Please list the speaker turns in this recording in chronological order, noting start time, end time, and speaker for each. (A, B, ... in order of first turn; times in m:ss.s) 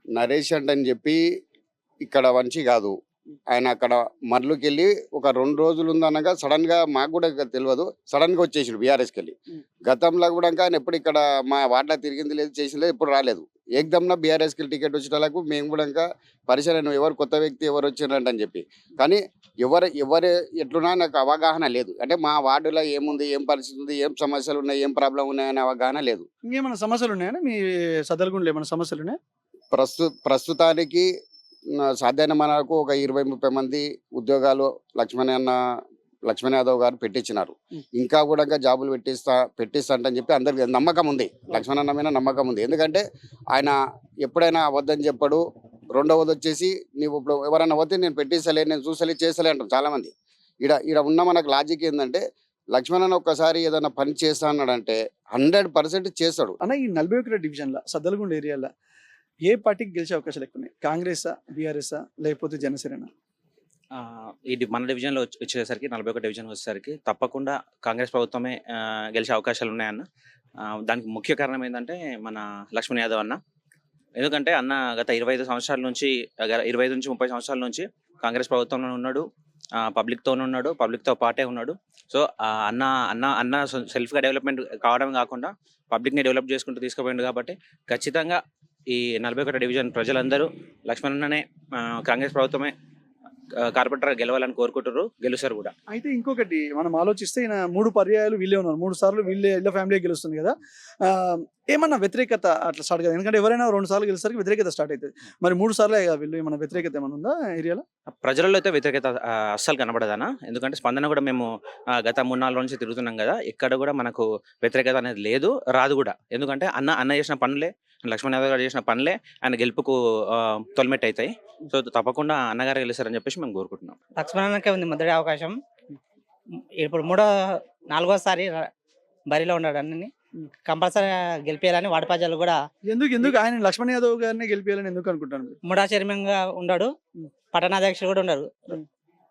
0:00.1-0:01.2 A
0:02.0-0:03.0 A
0:03.5-0:26.2 A
0:26.4-0:29.2 B
0:29.7-0:31.1 A
0:31.9-0:35.6 A
0:36.3-0:45.4 A
0:45.9-0:56.6 A
0:56.6-0:58.7 B
0:59.4-1:03.1 B
1:03.9-1:10.1 C
1:10.6-1:13.4 C
1:14.2-1:19.2 C
1:19.8-1:32.7 C
1:33.6-1:35.7 C
1:35.9-1:47.8 B
1:48.2-2:04.0 C
2:04.2-2:05.6 D
2:06.8-2:07.3 D
2:07.9-2:08.7 D
2:09.3-2:10.1 D
2:10.6-2:12.6 D
2:12.9-2:15.6 B
2:15.7-2:16.9 D
2:17.5-2:18.8 D